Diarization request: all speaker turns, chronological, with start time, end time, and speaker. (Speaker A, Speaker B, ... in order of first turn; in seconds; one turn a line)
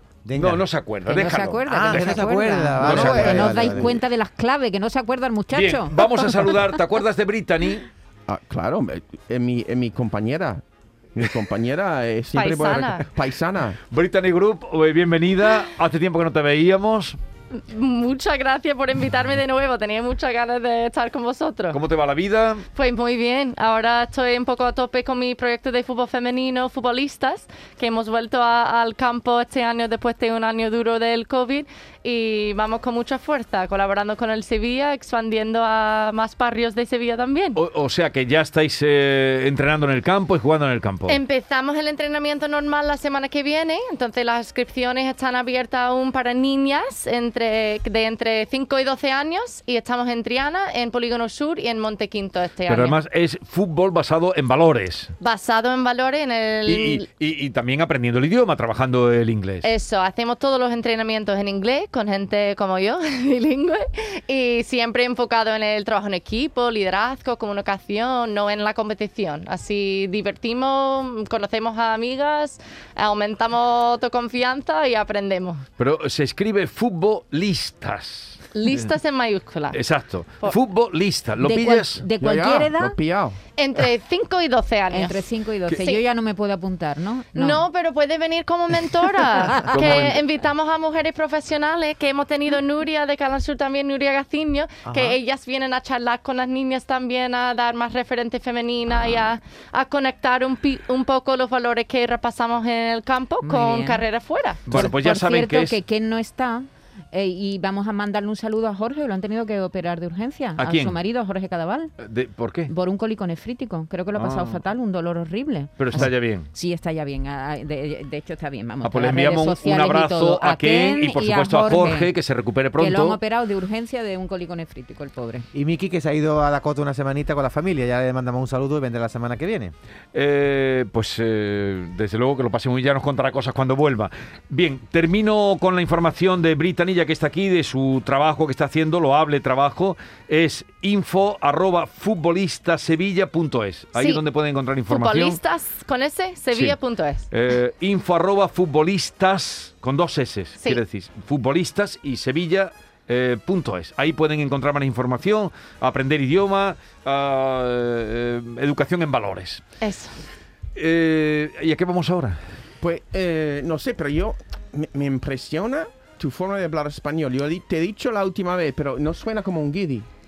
Speaker A: 0.2-0.6
Speaker B: 0.3-3.6
Speaker C: 1.1-6.3
Speaker A: 1.6-4.0
Speaker B: 5.5-7.9
Speaker D: 8.3-10.6
Speaker D: 11.1-13.8
Speaker E: 12.3-13.1
Speaker B: 13.9-17.2
Speaker E: 17.5-21.8
Speaker B: 21.7-22.6
Speaker E: 22.7-37.6
Speaker B: 37.5-41.2
Speaker E: 41.1-53.0
Speaker B: 52.7-55.1
Speaker E: 55.2-57.0
Speaker B: 56.6-59.7
Speaker E: 59.6-75.6
Speaker B: 75.8-78.4
Speaker E: 78.5-79.8
Speaker B: 79.7-82.0
Speaker C: 81.4-83.0
Speaker D: 82.2-83.4
Speaker E: 83.5-85.2
Speaker C: 84.9-87.6
Speaker E: 87.3-104.6
Speaker B: 89.7-90.2
Speaker A: 94.9-95.2
Speaker C: 103.4-104.0
Speaker B: 104.7-105.8
Speaker C: 104.7-111.9
Speaker B: 110.6-111.0
Speaker B: 112.0-112.7
Speaker C: 112.7-122.1
Speaker B: 114.2-114.6
Speaker B: 115.8-116.5
Speaker B: 118.8-123.2
Speaker C: 122.8-125.5
Speaker A: 125.5-129.7
Speaker B: 130.1-145.4
Speaker E: 143.9-144.2
Speaker E: 144.9-147.2
Speaker B: 147.3-159.6
Speaker E: 159.8-160.2
Speaker B: 160.7-162.4
Speaker D: 162.8-170.1